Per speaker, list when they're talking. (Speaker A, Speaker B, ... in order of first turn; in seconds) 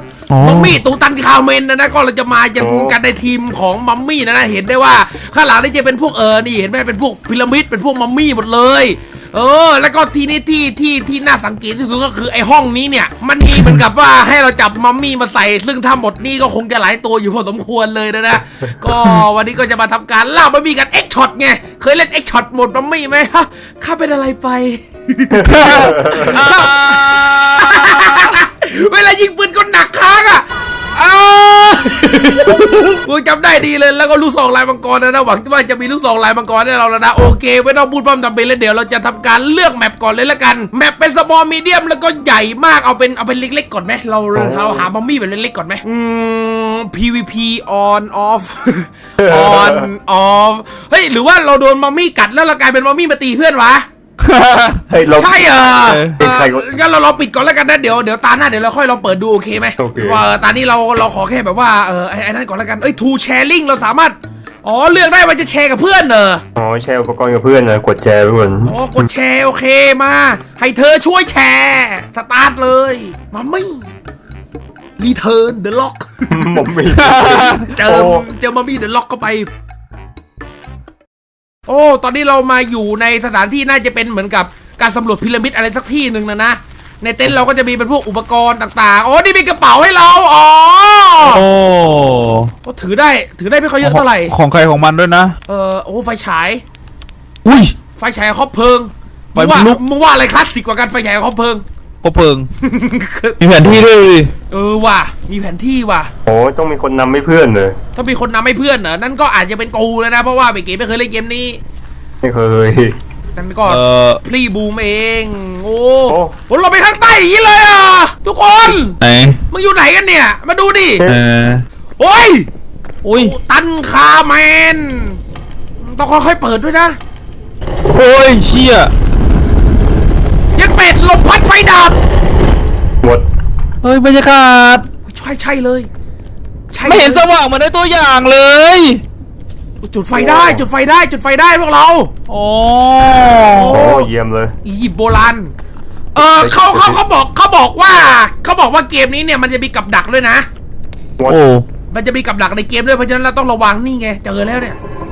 Speaker A: 0.3-0.8, 25.4-28.4, 54.2-54.8, 55.8-56.2, 76.9-77.7, 91.2-92.5, 93.8-95.3, 97.4-97.7, 99.3-99.8, 102.0-102.5, 103.4-104.3, 113.7-114.2, 118.9-119.4, 121.0-121.6, 123.0-123.3, 127.9-128.9, 133.8-134.8, 136.8-139.0, 142.3-143.7, 151.3-151.7
Speaker B: 0.4-53.9, 55.2-66.4, 68.7-73.9, 75.0-76.6, 77.6-79.5, 81.7-91.4, 92.6-94.3, 95.5-96.6, 98.0-101.6, 102.6-103.4, 104.5-106.1, 107.9-111.6, 113.3-119.0, 119.5-121.0, 122.0-122.5, 123.1-125.2, 125.8-127.0, 130.5-132.0, 135.1-135.9, 136.7-137.2, 139.8-142.1, 143.5-144.1, 144.6-145.5, 146.1-150.5, 151.9-154.8
Speaker C: 2.6-3.0, 25.6-26.3, 44.3-44.9, 49.2-49.9, 54.9-56.6, 59.8-60.2, 66.5-69.0, 76.3-78.3, 106.2-107.8, 112.2-113.0, 116.1-116.3, 140.1-140.6, 143.7-144.5, 146.4-147.0